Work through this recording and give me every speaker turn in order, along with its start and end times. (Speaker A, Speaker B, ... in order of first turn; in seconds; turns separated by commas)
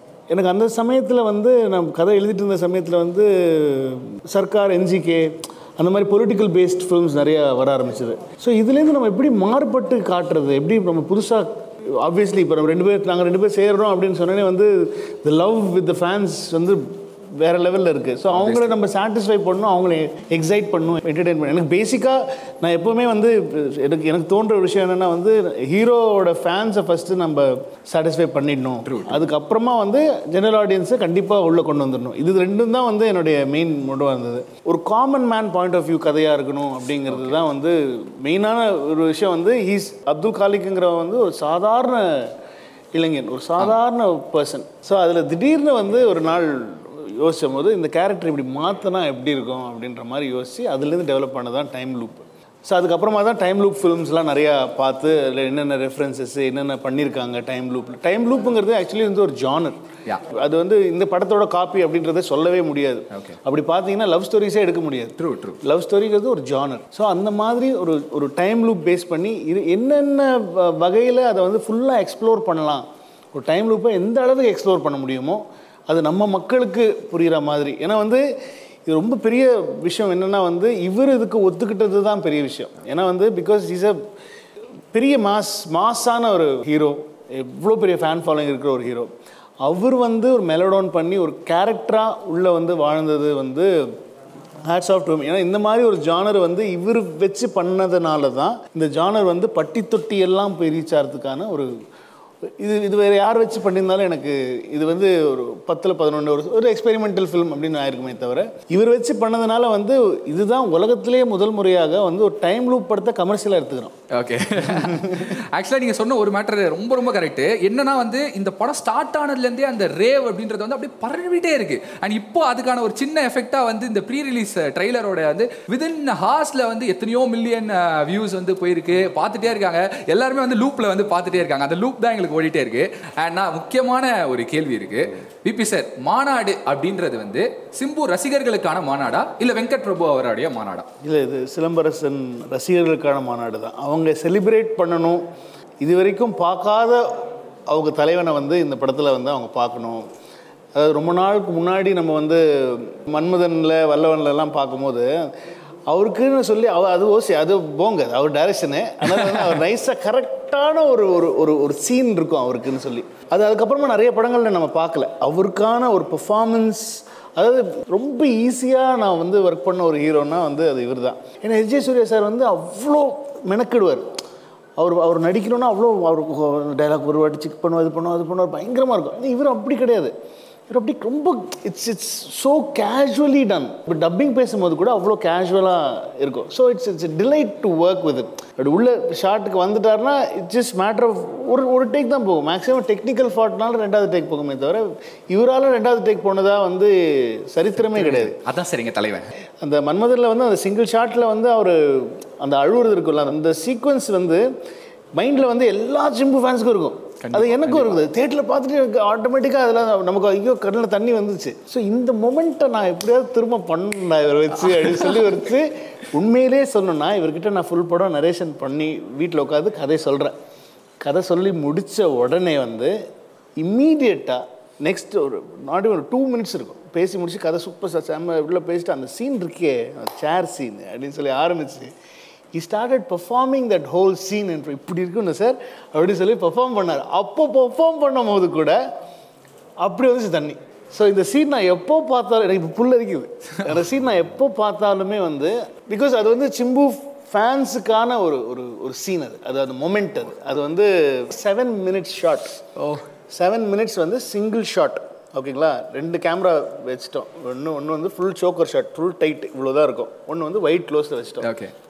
Speaker A: 0.3-42.3, Speaker B: 18.3-18.7, Speaker B: 28.8-29.2, Speaker B: 37.1-37.4, Speaker A: 42.9-78.2, Speaker B: 63.1-63.4, Speaker B: 65.2-65.6, Speaker A: 78.8-84.0, Speaker A: 84.9-89.1, Speaker A: 89.6-93.9, Speaker A: 94.7-101.7, Speaker A: 102.6-114.0, Speaker B: 114.1-140.9, Speaker A: 114.8-115.2, Speaker A: 141.0-145.2, Speaker A: 145.8-150.1, Speaker A: 150.7-155.3, Speaker A: 155.9-174.1, Speaker B: 159.1-159.5, Speaker A: 174.8-180.1, Speaker A: 180.7-198.3, Speaker B: 197.8-199.3, Speaker A: 199.6-204.5, Speaker A: 205.1-220.4, Speaker B: 207.2-208.0, Speaker B: 214.7-215.1, Speaker A: 221.0-222.9, Speaker A: 223.6-231.9, Speaker A: 232.5-238.8, Speaker A: 239.8-252.6, Speaker B: 252.8-253.1, Speaker A: 253.3-261.5, Speaker B: 261.4-261.7